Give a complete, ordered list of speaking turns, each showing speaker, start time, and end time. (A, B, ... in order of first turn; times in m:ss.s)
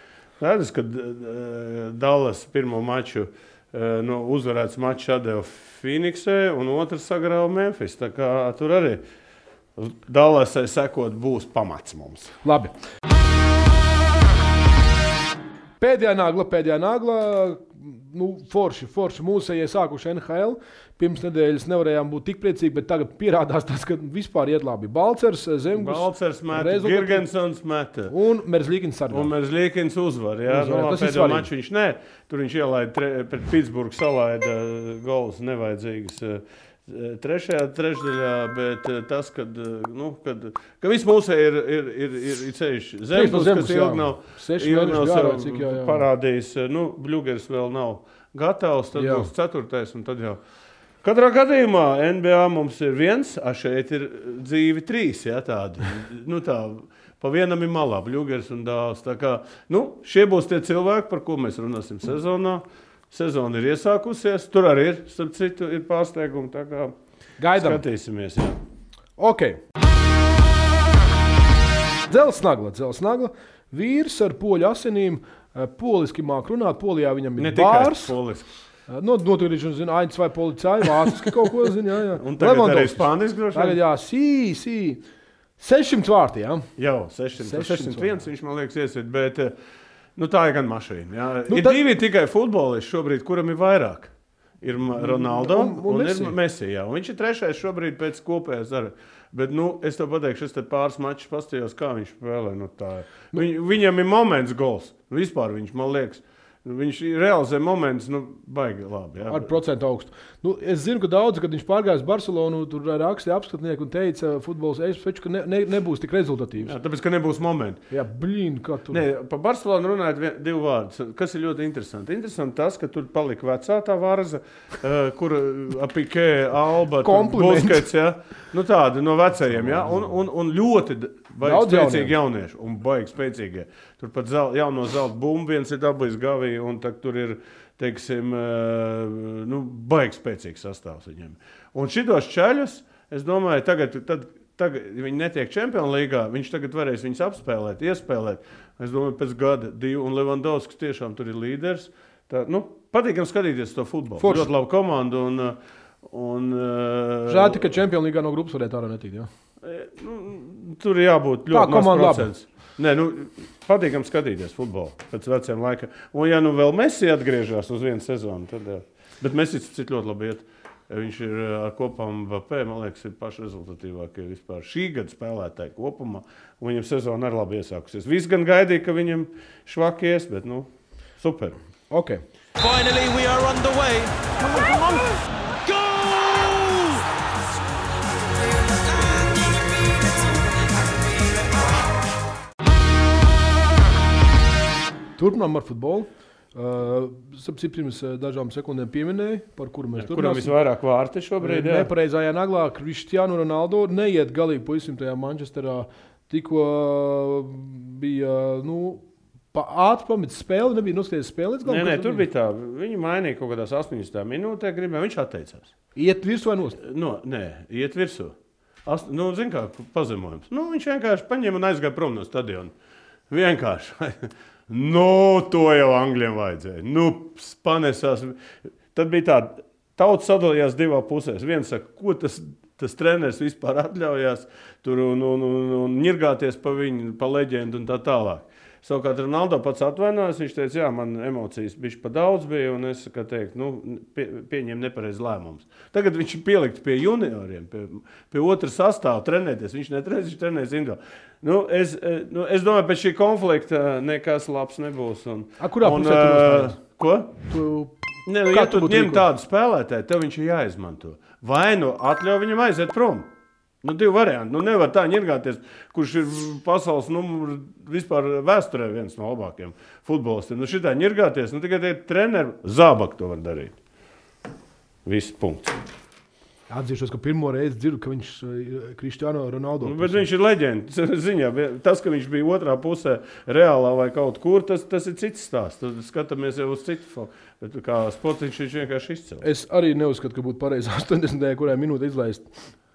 0:00.4-0:09.0 A
0:09.8-0:12.4 A
0:12.4-0:12.7 B
0:15.8-0:27.3 B
0:25.8-0:28.1 A
0:28.1-0:29.3 B
0:29.1-0:50.4 A
0:30.5-0:31.5 B
0:43.1-0:46.0 B
0:49.0-0:49.3 B
0:51.0-1:07.0 A
1:07.4-1:07.8 B
1:07.5-1:08.6 A
1:09.2-1:09.6 B
1:12.1-1:18.1 B
1:17.4-1:18.5 A
1:18.9-1:25.0 B
1:22.2-1:23.8 A
1:25.6-1:26.7 B
1:26.8-1:29.5 A
1:27.4-1:28.2 B
1:30.2-1:49.5 A
1:31.5-1:31.8 B
1:35.0-1:36.4 B
1:49.3-1:56.7 B
1:56.6-1:57.8 A
1:57.9-1:59.0 B
1:58.9-2:37.8 A
2:07.0-2:07.9 B
2:11.4-2:12.2 B
2:34.2-2:34.5 B
2:37.3-2:39.3 B
2:39.6-3:00.7 A
2:41.5-2:42.3 B
3:01.2-3:01.6 A
3:01.9-3:02.2 B
3:02.6-3:07.1 C
3:08.7-3:11.3 C
3:15.2-3:20.5 B
3:20.0-3:21.9 A
3:21.4-3:32.2 B
3:31.6-3:35.7 A
3:36.0-3:36.8 B
3:36.8-3:38.3 A
3:38.8-3:42.7 A
3:43.3-3:48.4 A
3:48.9-4:17.4 A
4:15.6-4:16.8 B
4:17.5-4:18.0 B
4:18.3-4:23.3 A
4:18.5-4:19.3 B
4:23.8-4:33.8 A
4:35.0-4:35.8 A
4:36.7-4:40.2 B
4:39.8-4:49.4 A
4:49.4-4:52.5 B